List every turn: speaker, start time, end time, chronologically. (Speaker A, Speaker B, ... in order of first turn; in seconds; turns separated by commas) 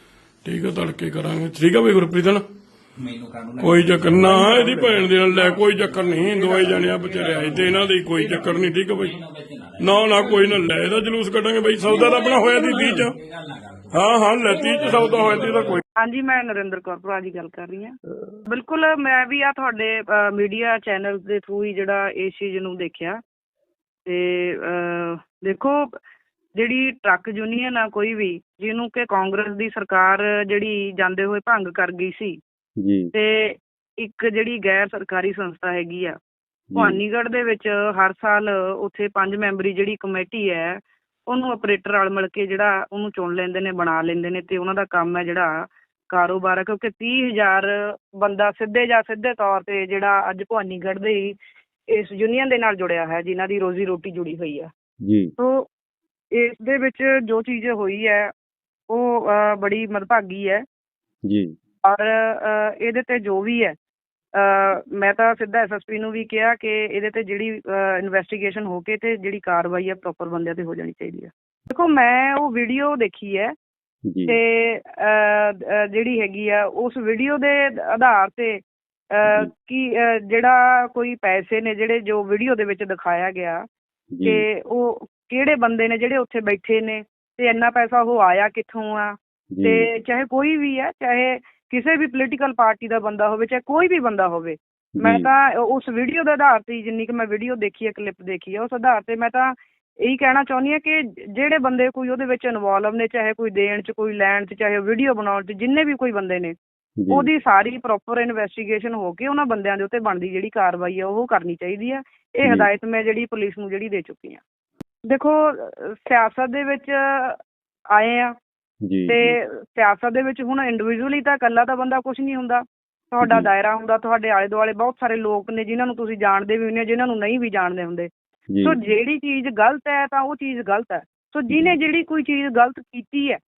Speaker A: 0.4-2.4, Speaker B: 3.0-10.6, Speaker A: 3.6-9.2, Speaker A: 9.8-13.2, Speaker B: 11.8-12.3, Speaker B: 12.8-14.0, Speaker A: 13.9-15.8, Speaker B: 14.7-15.8, Speaker C: 15.9-17.9, Speaker C: 18.4-23.2, Speaker C: 24.0-25.9, Speaker C: 26.5-32.4, Speaker D: 32.8-33.1, Speaker C: 33.1-36.1, Speaker D: 36.7-37.0, Speaker C: 36.7-51.4, Speaker C: 51.9-54.7, Speaker D: 55.0-55.3, Speaker C: 55.4-55.7, Speaker C: 56.3-58.3, Speaker C: 58.9-60.6, Speaker D: 61.2-61.5, Speaker C: 61.8-63.8, Speaker C: 64.3-73.5, Speaker D: 74.1-74.4, Speaker C: 74.2-83.6, Speaker D: 84.1-84.5, Speaker C: 84.2-106.5, Speaker D: 89.5-89.9, Speaker D: 95.0-95.3, Speaker D: 107.0-107.3, Speaker C: 107.1-114.4, Speaker D: 112.4-112.7, Speaker C: 115.0-117.4, Speaker C: 117.9-118.3, Speaker D: 118.8-119.4, Speaker C: 119.1-128.1, Speaker D: 123.2-123.5, Speaker D: 128.5-128.8, Speaker C: 128.6-133.4, Speaker D: 131.5-131.7